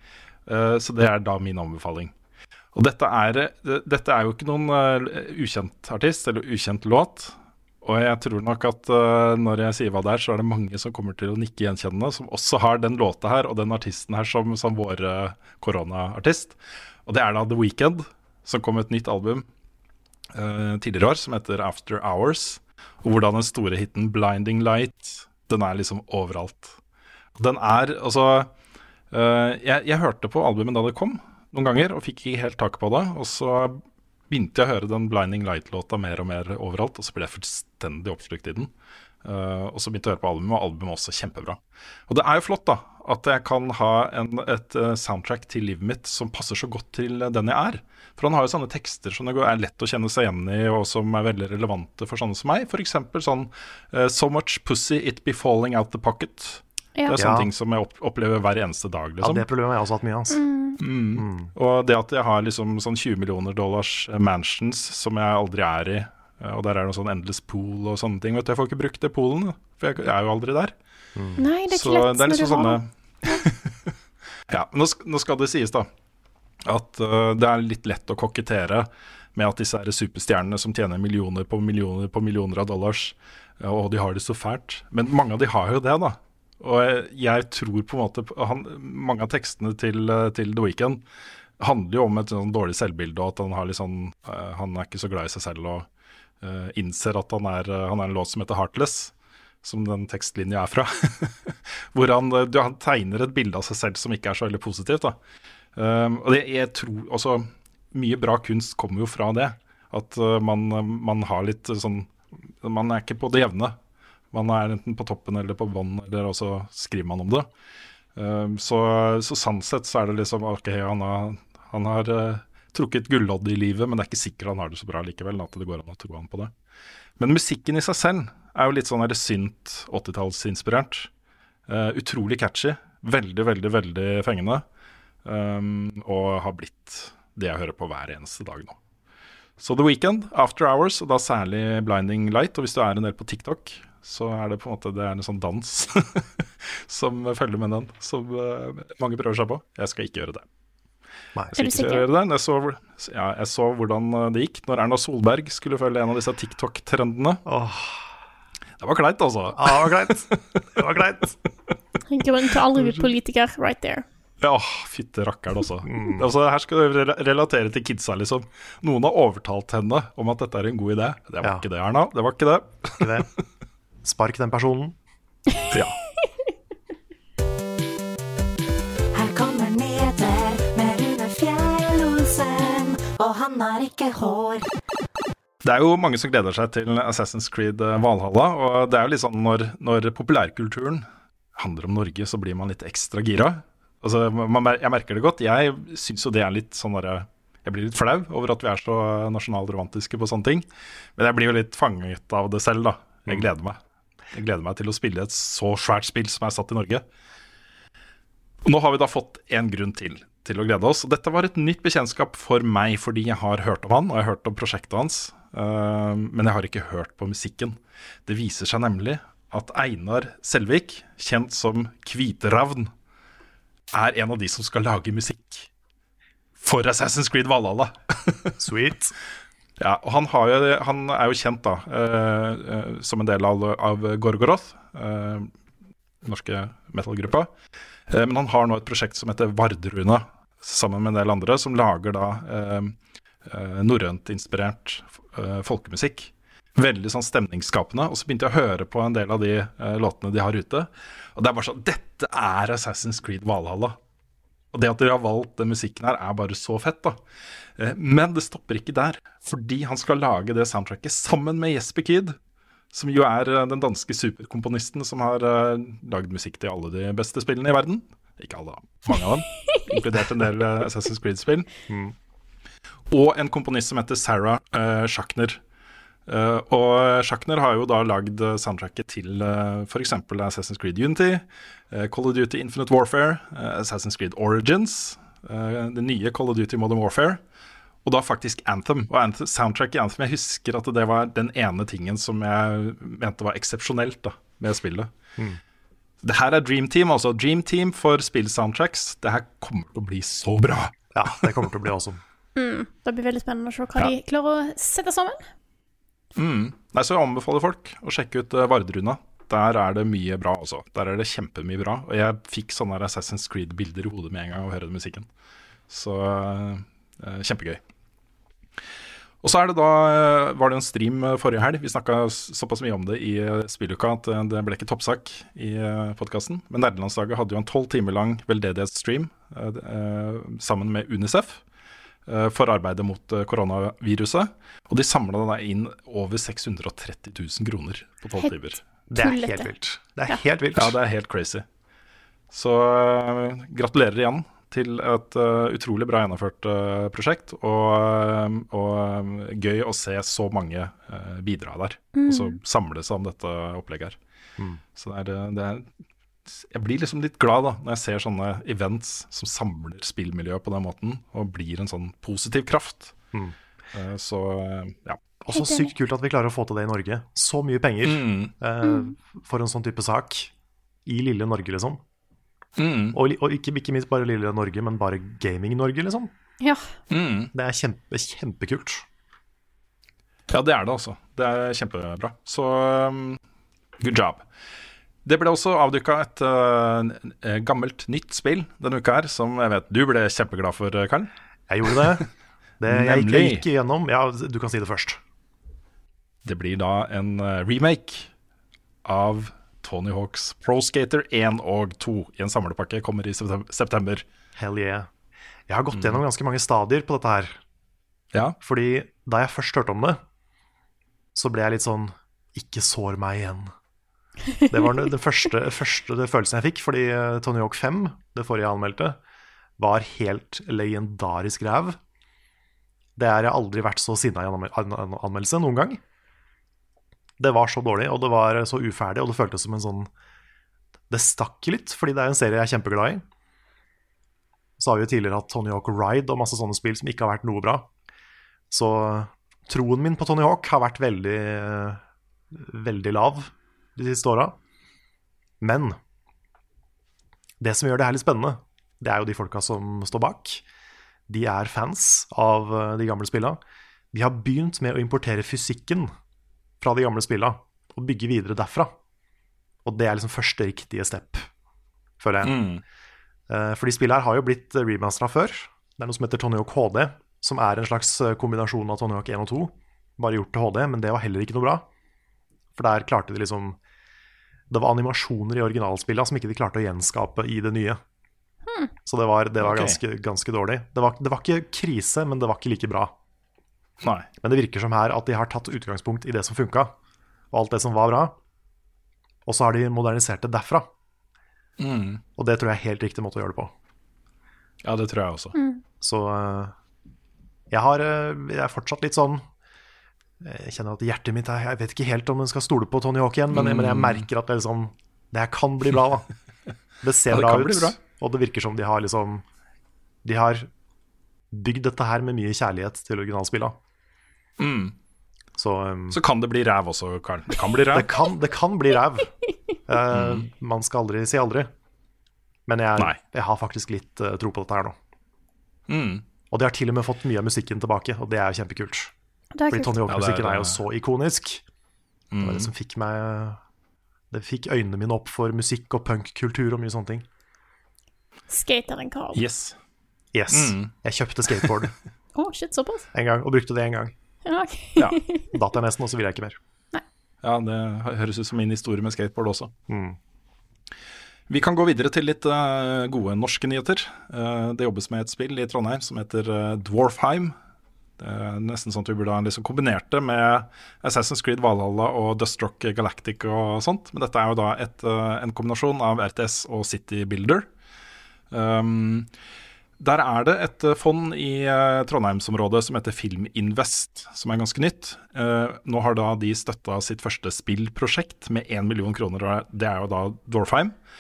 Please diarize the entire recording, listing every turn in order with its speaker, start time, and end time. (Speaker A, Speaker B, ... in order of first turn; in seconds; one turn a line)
Speaker A: 0.5-2.1
Speaker A: 2.8-19.5
Speaker A: 20.3-26.8
Speaker A: 27.4-28.5
Speaker A: 29.1-38.7
Speaker A: 39.2-59.5
Speaker B: 57.1-57.5
Speaker B: 59.2-60.4
Speaker C: 60.3-60.8
Speaker A: 60.8-70.7
Speaker B: 61.2-61.5
Speaker B: 71.2-71.4
Speaker C: 71.4-73.4
Speaker A: 71.7-73.9
Speaker A: 74.5-75.9
Speaker A: 76.7-91.0
Speaker A: 91.6-95.9
Speaker A: 96.4-105.2
Speaker A: 105.8-113.8
Speaker A: 114.3-117.5
Speaker A: 118.2-126.5
Speaker A: 127.2-131.1
Speaker A: 131.7-134.6
Speaker A: 135.2-138.8
Speaker A: 139.6-150.5
Speaker A: 151.6-157.4
Speaker C: 151.6-152.1
Speaker B: 157.5-158.1
Speaker A: 158.8-160.9
Speaker B: 159.6-161.4
Speaker C: 162.1-164.1
Speaker A: 164.4-173.2
Speaker B: 165.8-166.3
Speaker B: 173.0-173.3
Speaker B: 174.0-175.0
Speaker A: 175.7-176.0
Speaker D: 179.1-184.7
Speaker A: 185.6-191.1
Speaker A: 191.6-200.7
Speaker A: 201.2-203.8
Speaker A: 204.3-207.0
Speaker A: 208.7-222.9
Speaker A: 223.9-225.7
Speaker A: 226.6-228.6
Speaker B: 228.6-229.2
Speaker A: 229.8-235.5
Speaker A: 236.2-237.5
Speaker A: 238.1-242.9
Speaker A: 243.5-254.0
Speaker A: 254.7-257.2
Speaker A: 257.8-262.4
Speaker A: 262.9-271.7
Speaker B: 271.9-272.1
Speaker A: 273.1-275.6
Speaker A: 276.3-287.4
Speaker A: 288.1-295.1
Speaker A: 296.2-301.5
Speaker B: 301.1-302.2
Speaker C: 302.6-305.4
Speaker A: 306.4-315.3
Speaker A: 315.9-317.8
Speaker A: 319.4-331.6
Speaker A: 332.3-338.8
Speaker B: 339.1-341.0
Speaker C: 339.2-339.7
Speaker A: 340.8-341.6
Speaker A: 342.5-354.2
Speaker C: 352.1-352.6
Speaker A: 354.9-355.9
Speaker A: 356.5-363.1
Speaker A: 363.9-365.2
Speaker B: 365.4-370.5
Speaker C: 365.5-365.9
Speaker A: 368.0-368.5
Speaker C: 368.8-369.1
Speaker B: 371.1-372.0
Speaker A: 372.8-373.2
Speaker B: 373.1-376.3
Speaker C: 376.6-376.9
Speaker A: 377.1-377.5
Speaker B: 377.5-379.1
Speaker A: 380.5-383.4
Speaker A: 384.0-384.4
Speaker A: 385.2-391.3
Speaker B: 391.7-392.3
Speaker A: 392.0-392.2
Speaker B: 392.8-395.2
Speaker A: 392.9-393.6
Speaker A: 396.4-398.3
Speaker A: 399.1-404.2
Speaker B: 404.6-405.1
Speaker B: 405.7-407.6
Speaker A: 405.9-406.2
Speaker B: 408.6-410.2
Speaker B: 411.4-413.7
Speaker B: 414.7-419.2
Speaker B: 419.8-422.0
Speaker B: 423.2-426.0
Speaker B: 427.4-430.1
Speaker B: 431.1-433.2
Speaker B: 434.8-437.9
Speaker B: 438.7-444.6
Speaker B: 445.6-446.0
Speaker B: 447.6-450.6
Speaker B: 451.3-453.6
Speaker B: 454.1-456.1
Speaker B: 456.8-458.9
Speaker B: 459.9-461.5
Speaker B: 462.2-462.7
Speaker A: 462.4-462.8
Speaker B: 463.5-471.9
Speaker B: 472.8-473.8
Speaker B: 474.7-478.0
Speaker C: 478.7-478.9
Speaker B: 479.1-483.1
Speaker A: 479.6-480.0
Speaker A: 484.0-484.3
Speaker B: 484.4-487.0
Speaker B: 487.5-488.4
Speaker B: 489.5-490.9
Speaker A: 491.8-492.2
Speaker B: 492.4-493.7
Speaker A: 494.8-495.6
Speaker C: 495.6-495.8
Speaker B: 496.0-496.8
Speaker B: 497.7-499.4
Speaker B: 500.4-506.3
Speaker A: 503.5-504.3
Speaker B: 507.0-509.4
Speaker A: 507.3-508.0
Speaker B: 510.2-510.7
Speaker B: 511.5-513.8
Speaker A: 514.6-515.0
Speaker B: 515.6-516.2
Speaker A: 516.1-518.1
Speaker B: 517.9-519.3
Speaker B: 519.9-521.7
Speaker A: 520.1-520.5
Speaker B: 522.7-525.0
Speaker A: 525.9-526.2
Speaker B: 526.5-529.1
Speaker C: 529.5-530.0
Speaker B: 529.7-531.6
Speaker A: 530.1-530.8
Speaker A: 532.3-532.7
Speaker B: 532.4-533.6
Speaker B: 534.3-537.3
Speaker C: 538.5-539.4
Speaker A: 539.4-539.8
Speaker B: 540.3-541.9
Speaker A: 540.5-540.9
Speaker C: 542.4-543.1
Speaker B: 543.1-544.1
Speaker C: 544.5-545.5
Speaker B: 545.5-546.6
Speaker A: 547.4-549.7
Speaker B: 549.9-550.2
Speaker A: 551.5-557.5
Speaker A: 558.2-567.7
Speaker A: 568.5-569.3
Speaker A: 570.0-580.9